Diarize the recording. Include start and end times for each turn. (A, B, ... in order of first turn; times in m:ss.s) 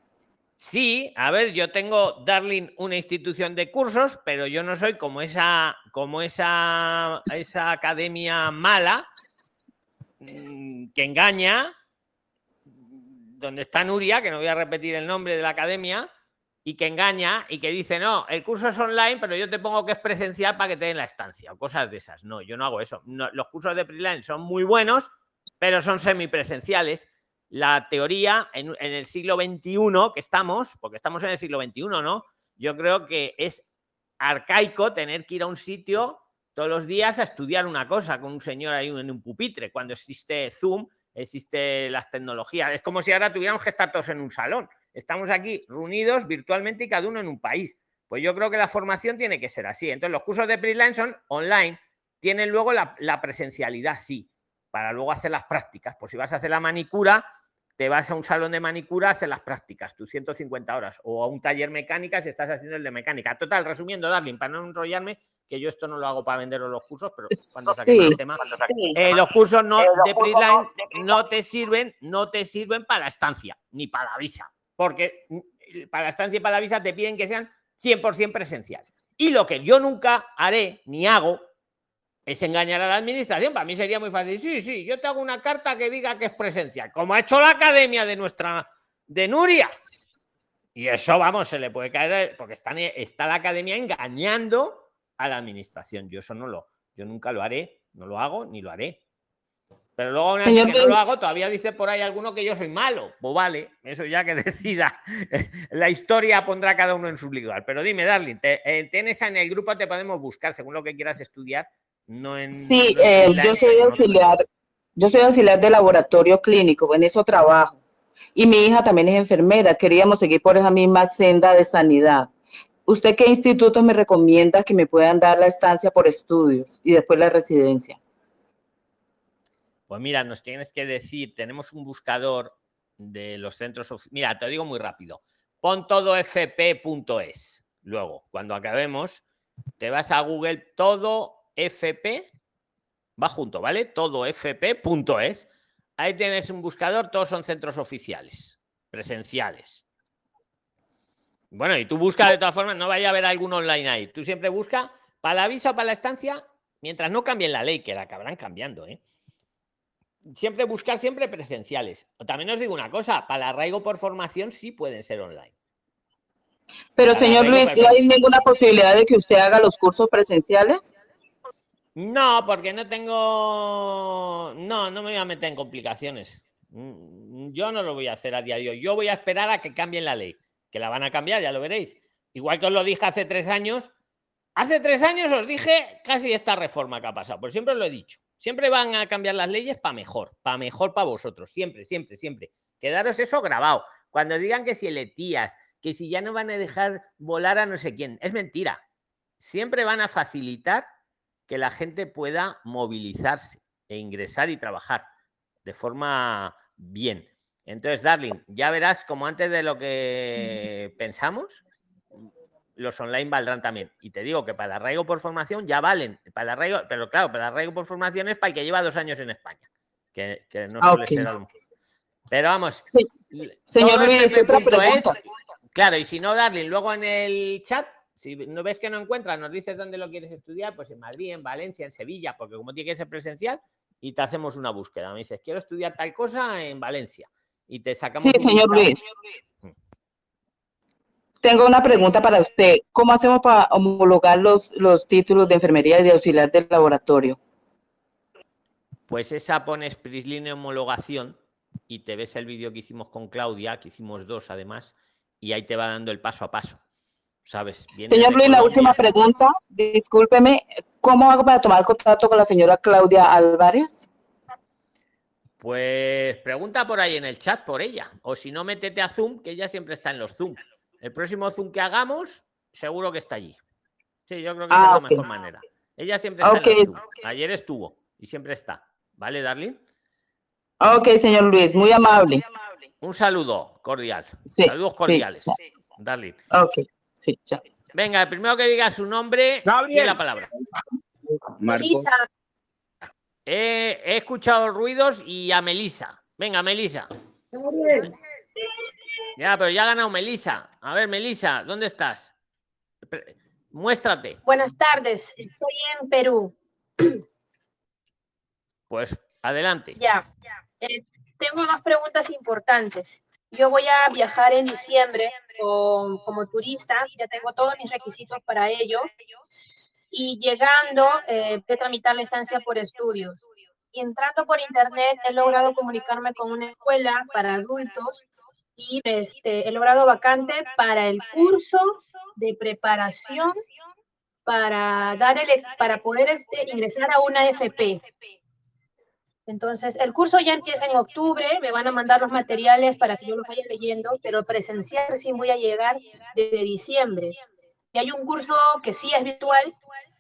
0:00.6-0:09.1 A
0:10.2-0:11.7 A
0:12.7-0:16.1 A
0:16.6-0:33.6 A
0:34.2-0:57.2 A
0:57.8-1:21.4 A
1:07.3-1:09.0 B
1:09.8-1:10.7 B
1:22.3-1:29.7 A
1:30.7-1:39.0 A
1:40.0-1:54.3 A
1:40.4-1:41.0 B
1:52.6-1:54.4 B
1:55.0-1:57.8 B
1:58.3-2:02.3 B
2:02.9-2:08.0 B
2:09.9-2:19.2 A
2:19.8-2:22.3 A
2:23.2-2:29.8 A
2:31.5-2:39.0 A
2:40.2-2:45.5 A
2:47.0-2:50.9 B
2:47.1-2:48.1 A
2:52.0-3:03.9 A
3:04.6-3:18.8 A
3:19.4-3:20.9 A
3:21.5-3:25.0 A
3:25.6-3:31.6 A
3:32.8-3:41.5 A
3:40.8-3:41.3 B
3:42.3-3:45.2 A
3:43.7-3:45.2 B
3:45.7-3:58.9 A
3:58.2-3:59.0 B
4:01.4-4:07.4 B
4:09.1-4:11.4 A
4:11.9-4:16.8 A
4:17.4-4:19.0 A
4:18.1-4:24.1 B
4:25.6-4:33.6 A
4:34.3-4:39.8 A
4:34.7-4:35.2 B
4:36.4-4:36.9 B
4:40.8-4:42.5 B
4:43.0-4:46.4 A
4:44.5-4:45.5 B
4:46.5-4:47.6 B
4:47.9-4:50.5 A
4:49.8-4:50.0 B
4:51.6-4:52.3 C
4:53.0-4:57.1 A
4:59.4-5:02.3 A
5:03.1-5:04.4 A
5:04.4-5:06.5 C
5:08.9-5:10.0 A
5:10.0-5:10.2 C
5:10.8-5:19.1 C
5:20.1-5:28.2 C
5:28.8-5:33.6 C
5:34.4-5:38.0 C
5:39.5-5:47.4 C
5:47.9-5:49.7 C